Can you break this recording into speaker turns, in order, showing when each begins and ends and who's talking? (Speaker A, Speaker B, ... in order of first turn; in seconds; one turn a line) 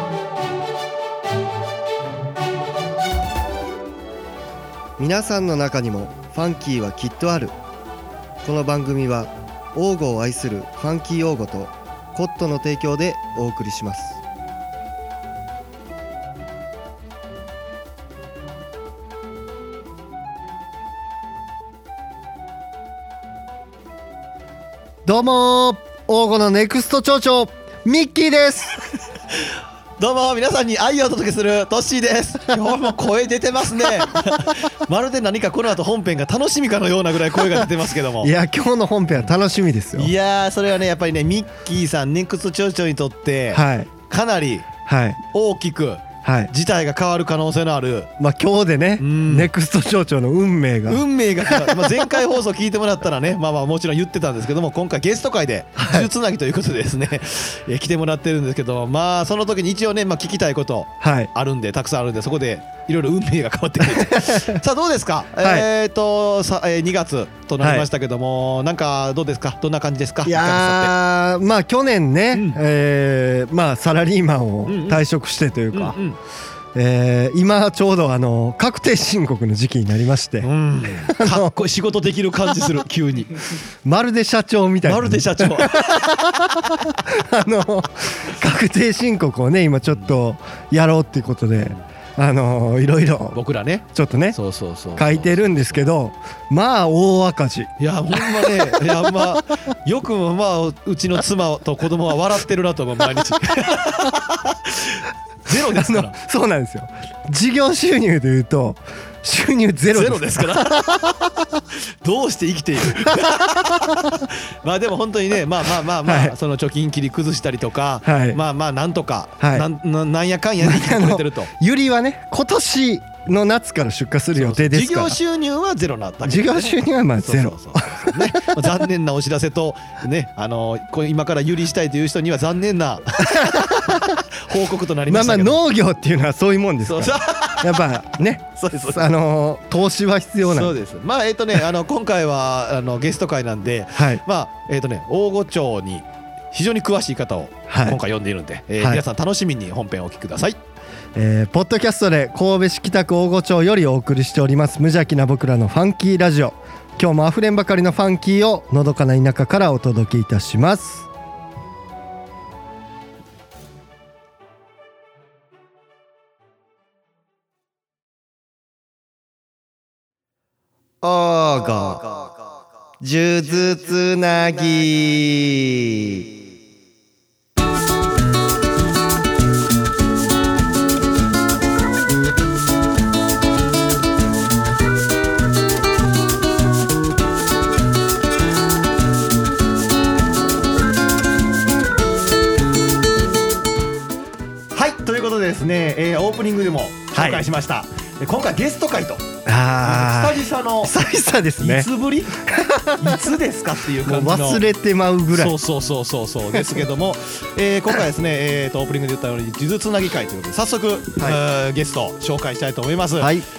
Speaker A: 5.0-7.5
Speaker A: 8.4-14.2
Speaker A: 25.0-28.8
Speaker B: 30.0-38.3
Speaker A: 38.2-40.1
Speaker B: 40.0-44.7
Speaker A: 43.5-43.9
Speaker A: 44.9-45.2
Speaker B: 45.3-48.1
Speaker A: 46.2-46.5
Speaker A: 48.2-52.2
Speaker B: 49.0-49.5
Speaker B: 50.9-70.9
Speaker A: 55.8-56.1
Speaker A: 61.0-61.3
Speaker A: 63.8-64.6
Speaker A: 65.4-65.7
Speaker A: 67.6-67.9
Speaker A: 70.2-76.0
Speaker B: 72.3-72.6
Speaker B: 74.6-75.0
Speaker B: 75.7-76.2
Speaker A: 76.7-80.5
Speaker B: 80.4-83.4
Speaker A: 81.0-81.5
Speaker A: 83.8-93.4
Speaker B: 84.8-86.0
Speaker B: 93.3-95.5
Speaker A: 93.9-94.4
Speaker A: 94.9-99.2
Speaker B: 97.8-106.1
Speaker A: 105.7-111.2
Speaker B: 109.9-111.2
Speaker B: 112.0-121.5
Speaker A: 116.0-116.3
Speaker A: 118.0-118.4
Speaker A: 119.4-119.7
Speaker A: 120.6-125.2
Speaker B: 124.3-135.6
Speaker A: 126.2-128.7
Speaker A: 133.2-134.2
Speaker A: 135.1-140.7
Speaker B: 136.9-137.8
Speaker B: 138.6-139.0
Speaker B: 140.4-150.6
Speaker A: 143.9-144.2
Speaker A: 147.7-148.0
Speaker A: 151.1-161.1
Speaker A: 171.0-172.4
Speaker A: 173.0-176.3
Speaker B: 194.7-199.2
Speaker A: 197.1-197.4
Speaker A: 199.4-201.9
Speaker B: 199.8-200.9
Speaker B: 201.6-204.6
Speaker A: 202.4-203.2
Speaker A: 204.0-205.6
Speaker B: 205.3-213.3
Speaker A: 206.5-206.8
Speaker A: 213.2-213.4